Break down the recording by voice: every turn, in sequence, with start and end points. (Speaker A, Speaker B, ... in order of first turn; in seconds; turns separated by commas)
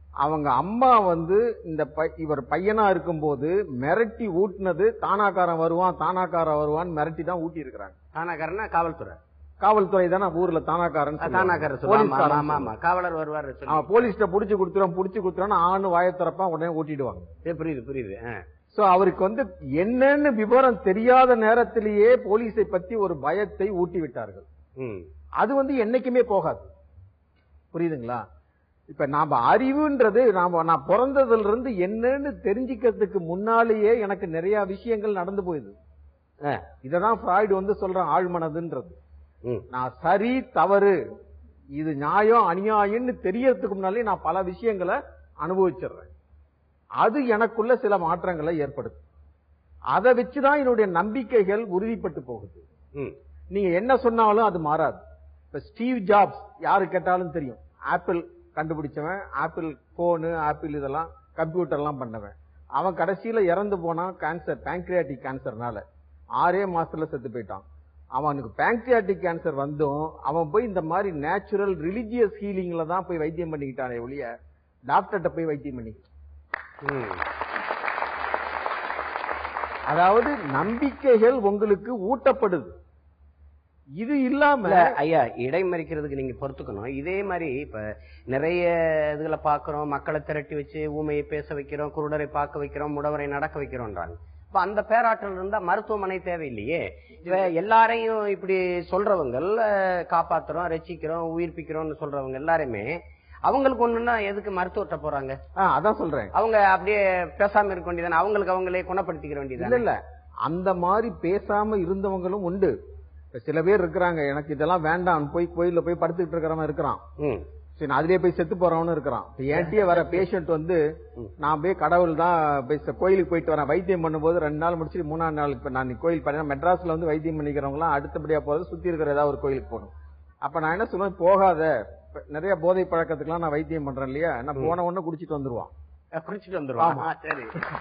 Speaker A: 0.2-8.0, Speaker B: 8.2-9.2, Speaker A: 9.6-12.7, Speaker B: 11.2-14.1, Speaker A: 13.7-17.3, Speaker B: 17.5-18.4, Speaker A: 18.7-24.5, Speaker B: 24.8-25.1, Speaker A: 25.4-26.7, Speaker A: 27.7-28.2, Speaker A: 28.9-35.8, Speaker A: 36.8-39.0, Speaker A: 39.7-41.0, Speaker A: 41.8-46.1, Speaker A: 47.0-49.0, Speaker A: 49.9-52.6, Speaker A: 53.5-65.8, Speaker A: 66.4-67.7, Speaker A: 68.2-74.3, Speaker A: 74.9-76.0, Speaker B: 76.8-77.2, Speaker A: 79.9-82.8, Speaker A: 84.0-85.0, Speaker B: 84.7-105.4, Speaker A: 105.6-106.3, Speaker B: 106.3-109.8, Speaker A: 109.6-112.7, Speaker A: 113.3-117.0, Speaker B: 117.2-117.5, Speaker A: 117.8-120.8, Speaker B: 119.5-120.2, Speaker A: 121.4-129.9, Speaker A: 130.4-135.7, Speaker B: 136.1-137.6, Speaker A: 136.8-137.1